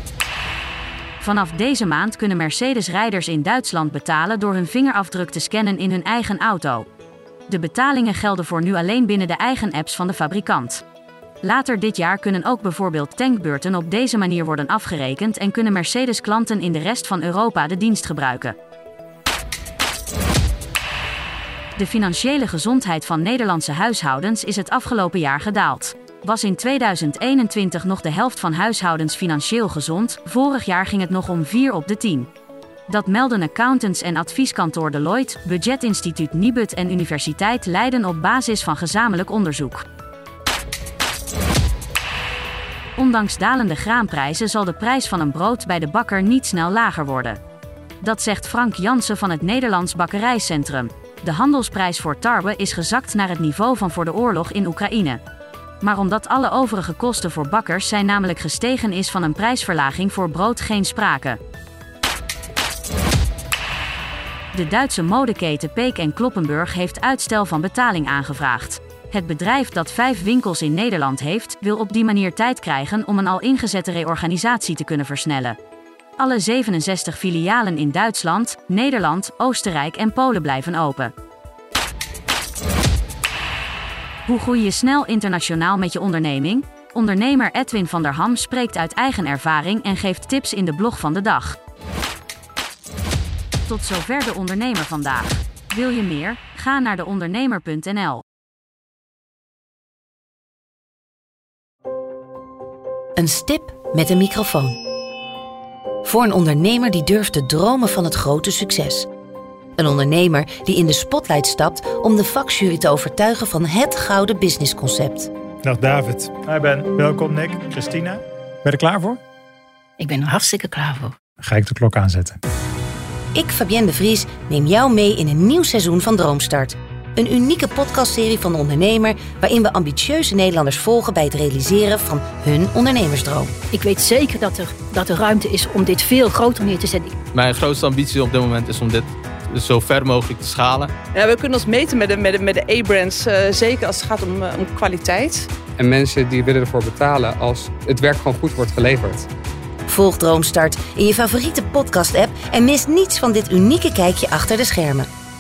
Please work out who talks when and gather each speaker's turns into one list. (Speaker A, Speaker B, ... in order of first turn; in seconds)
Speaker A: 1.2-6.8, 7.5-10.8, 11.4-18.6, 21.8-32.3, 32.9-39.8, 43.0-47.4, 48.0-55.2, 55.8-61.4, 64.5-75.6, 76.2-81.1, 84.2-91.6, 93.7-98.2
Speaker B: 103.2-104.8, 106.0-109.1, 109.8-115.3, 123.3-133.5, 149.9-155.1
Speaker C: 115.6-119.2, 121.4-122.4
Speaker D: 120.0-121.1, 133.7-137.1
Speaker E: 137.3-140.9
Speaker F: 141.1-145.5
Speaker G: 145.8-149.3